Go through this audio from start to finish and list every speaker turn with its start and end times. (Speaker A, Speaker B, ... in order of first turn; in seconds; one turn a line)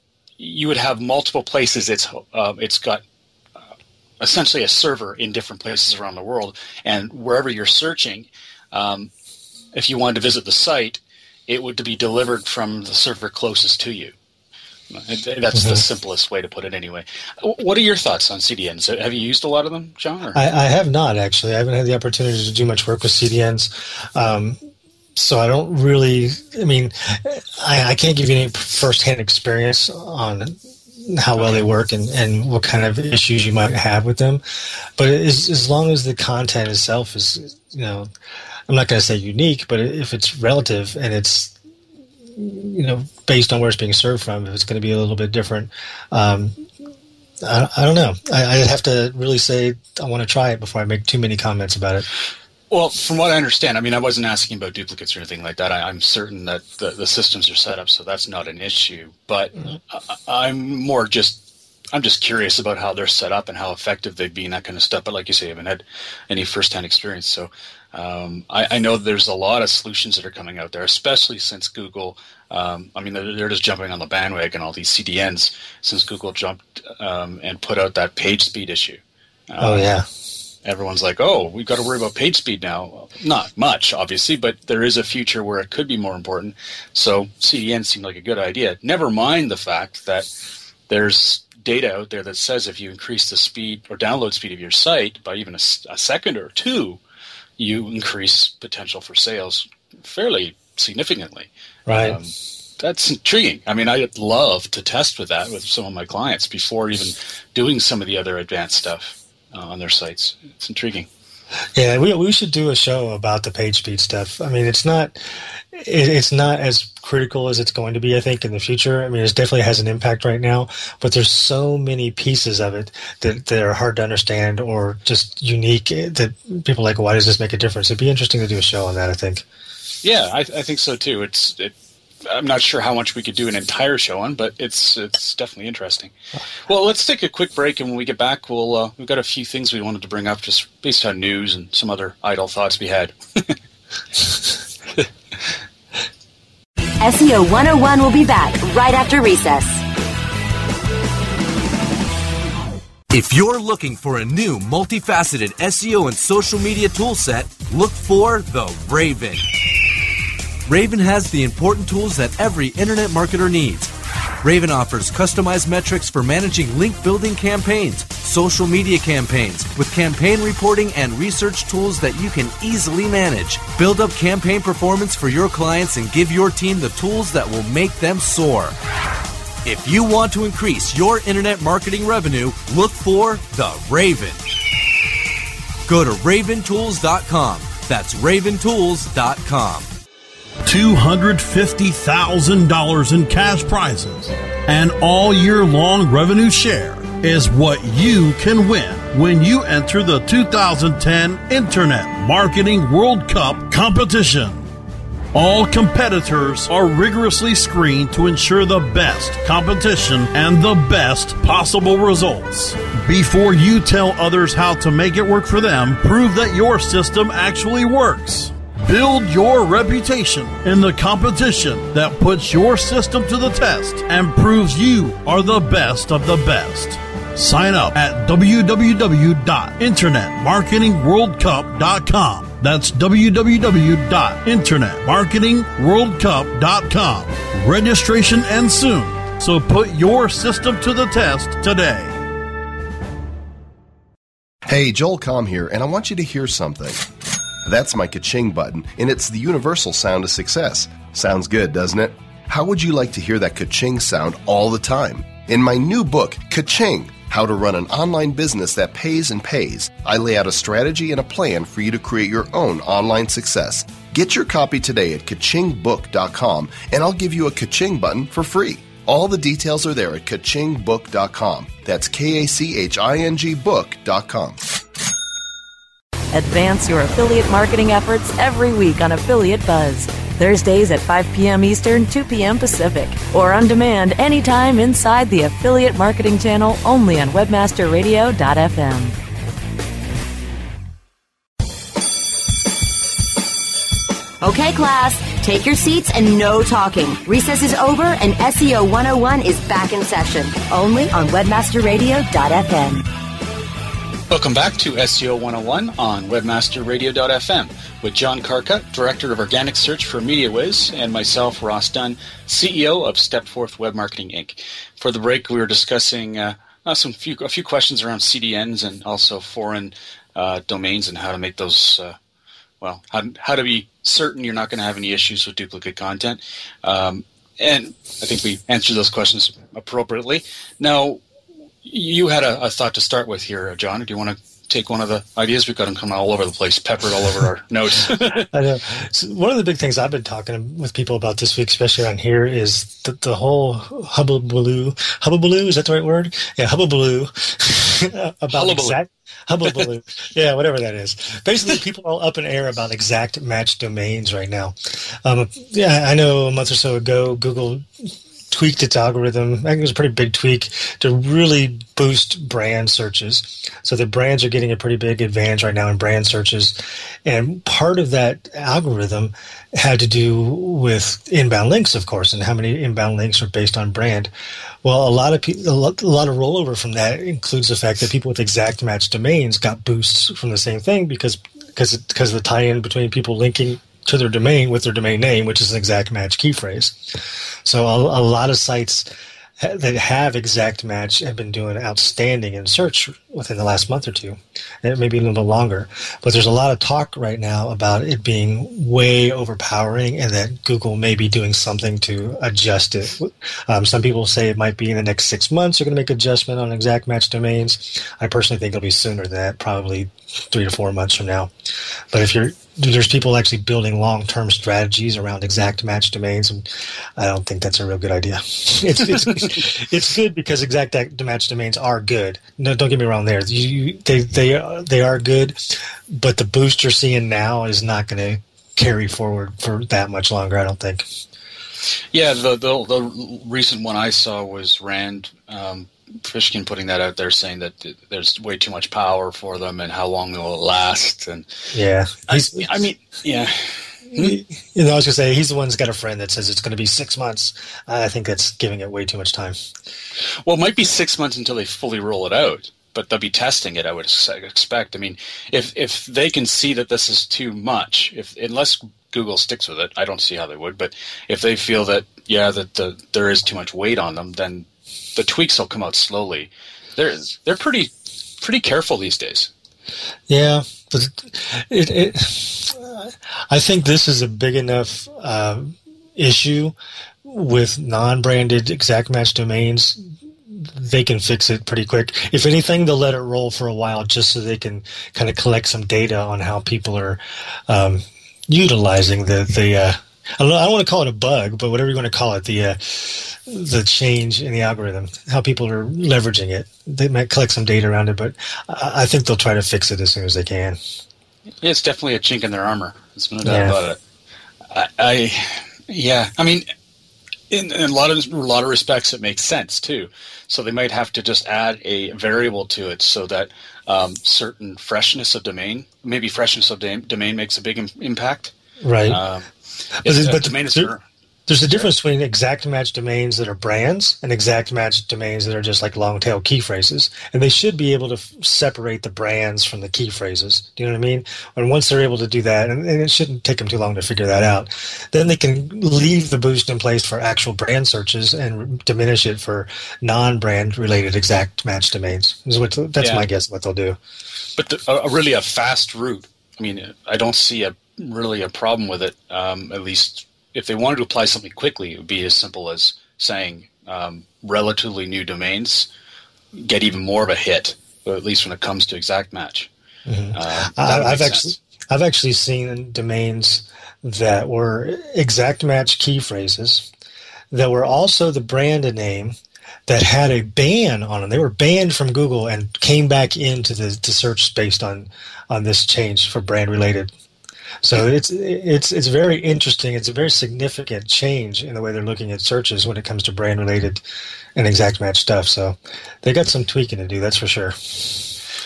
Speaker A: 0.4-3.0
Speaker A: 4.2-9.1
Speaker A: 9.7-14.1
Speaker A: 14.9-20.4
Speaker B: 15.5-15.8
Speaker B: 20.3-24.6
Speaker B: 25.1-34.4
Speaker A: 31.3-31.6
Speaker B: 35.0-38.1
Speaker B: 38.7-41.5
Speaker B: 42.3-46.6
Speaker B: 47.4-52.0
Speaker A: 52.7-79.9
Speaker B: 79.6-80.0
Speaker A: 80.6-90.3
Speaker A: 90.9-97.0
Speaker A: 97.6-111.1
Speaker B: 101.9-102.2
Speaker B: 111.7-129.4
Speaker A: 130.0-131.7
Speaker A: 132.2-136.1
Speaker A: 136.7-143.6
Speaker C: 147.0-149.8
Speaker D: 153.1-159.4
Speaker D: 160.7-163.9
Speaker D: 164.4-178.7
Speaker D: 179.7-184.3
Speaker D: 185.9-189.8
Speaker E: 190.7-204.6
Speaker E: 205.3-242.1
Speaker F: 244.7-247.0
Speaker F: 247.6-274.6
Speaker G: 276.3-289.1
Speaker C: 294.4-303.1
Speaker A: 304.3-322.1
Speaker A: 322.8-331.2
Speaker A: 331.8-338.5
Speaker B: 338.5-374.3
Speaker A: 348.5-349.0
Speaker B: 374.8-389.1
Speaker B: 389.6-411.5
Speaker B: 412.1-431.1
Speaker A: 419.2-419.6
Speaker A: 432.1-441.5
Speaker B: 441.7-442.7
Speaker A: 442.3-444.4
Speaker B: 444.1-449.6
Speaker A: 450.4-469.5
Speaker B: 470.3-500.8
Speaker A: 501.6-504.0
Speaker B: 503.4-503.8
Speaker A: 504.7-506.6
Speaker A: 507.5-518.5
Speaker B: 518.8-519.2
Speaker A: 519.1-519.5
Speaker A: 520.0-521.0
Speaker B: 520.0-520.9
Speaker B: 521.5-544.0
Speaker A: 543.0-543.2
Speaker A: 544.6-555.9
Speaker A: 556.5-559.7
Speaker B: 560.0-566.9
Speaker A: 560.3-561.5
Speaker B: 567.5-569.4
Speaker B: 569.9-577.1
Speaker B: 577.8-584.0
Speaker B: 584.5-588.2